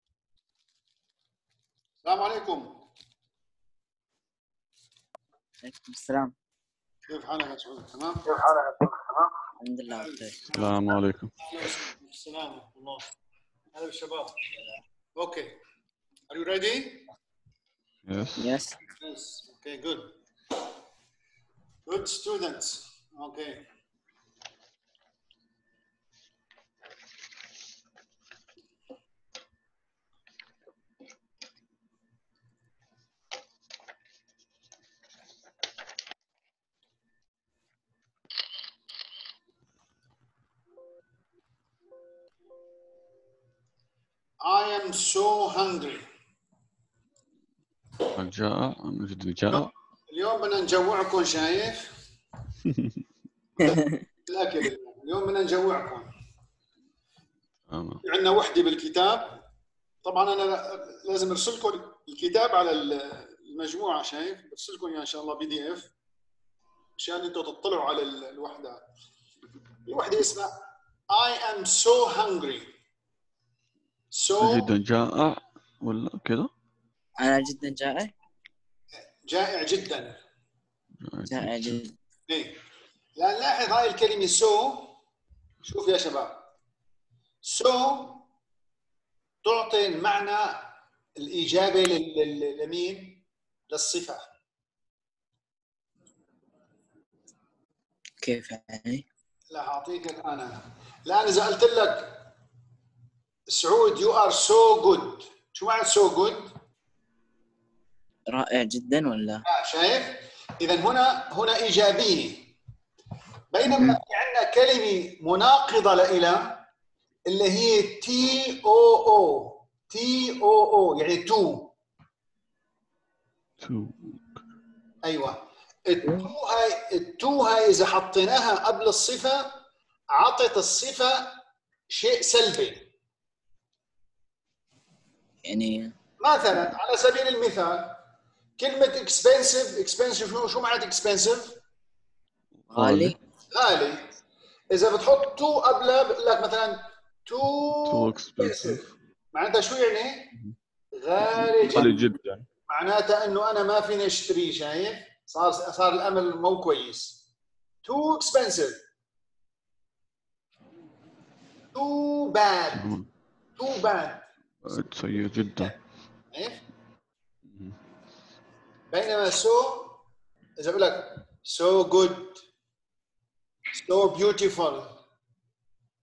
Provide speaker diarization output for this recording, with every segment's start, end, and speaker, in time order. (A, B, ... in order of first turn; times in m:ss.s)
0:02.0-0:02.8 A
0:05.6-0:06.3 B
0:07.1-0:08.3 A
0:09.6-0:10.5 B
0:09.9-0:13.0 A
0:10.5-0:11.4 C
0:13.7-0:14.4 A
0:15.2-0:15.6 A
0:16.3-0:17.1 A
0:18.0-0:18.6 C
0:18.4-0:18.8 B
0:18.9-0:20.1 A
0:21.9-0:23.6 A
0:44.4-0:46.0 A
0:48.1-0:49.7 C
0:49.5-0:51.9 A
0:52.7-0:52.9 C
0:53.6-0:54.0 B
0:53.6-0:56.1 A
0:57.7-0:58.0 C
0:58.0-0:59.4 A
1:00.0-1:05.9 A
1:07.0-1:08.8 A
1:09.8-1:10.6 A
1:11.1-1:12.7 A
1:14.1-1:14.7 A
1:14.4-1:16.5 C
1:17.2-1:18.1 B
1:19.2-1:20.2 A
1:21.0-1:21.8 C
1:21.3-1:21.9 B
1:22.3-1:22.6 A
1:23.2-1:24.9 A
1:25.6-1:26.4 A
1:27.4-1:28.2 A
1:29.4-1:34.2 A
1:38.2-1:39.0 B
1:39.5-1:42.3 A
1:43.5-1:46.5 A
1:48.3-1:49.4 B
1:49.4-1:52.6 A
1:53.5-1:56.6 A
1:57.2-2:01.7 A
2:03.6-2:04.4 C
2:05.0-2:09.6 A
2:06.0-2:06.3 B
2:10.1-2:11.4 A
2:11.9-2:12.9 A
2:15.4-2:16.0 B
2:16.2-2:18.0 A
2:18.6-2:21.6 A
2:22.7-2:23.2 C
2:22.7-2:23.2 B
2:23.5-2:24.1 A
2:24.7-2:28.8 A
2:27.8-2:28.9 C
2:29.3-2:30.3 A
2:31.0-2:32.1 A
2:31.2-2:32.4 C
2:32.7-2:37.2 A
2:37.8-2:38.8 A
2:41.7-2:42.9 A
2:42.7-2:43.1 C
2:43.6-2:44.2 A
2:44.6-2:45.8 C
2:45.1-2:45.7 A
2:46.3-2:46.6 A
2:47.5-2:47.8 C
2:48.9-2:50.0 A
2:50.6-2:52.4 A
2:53.8-2:55.0 A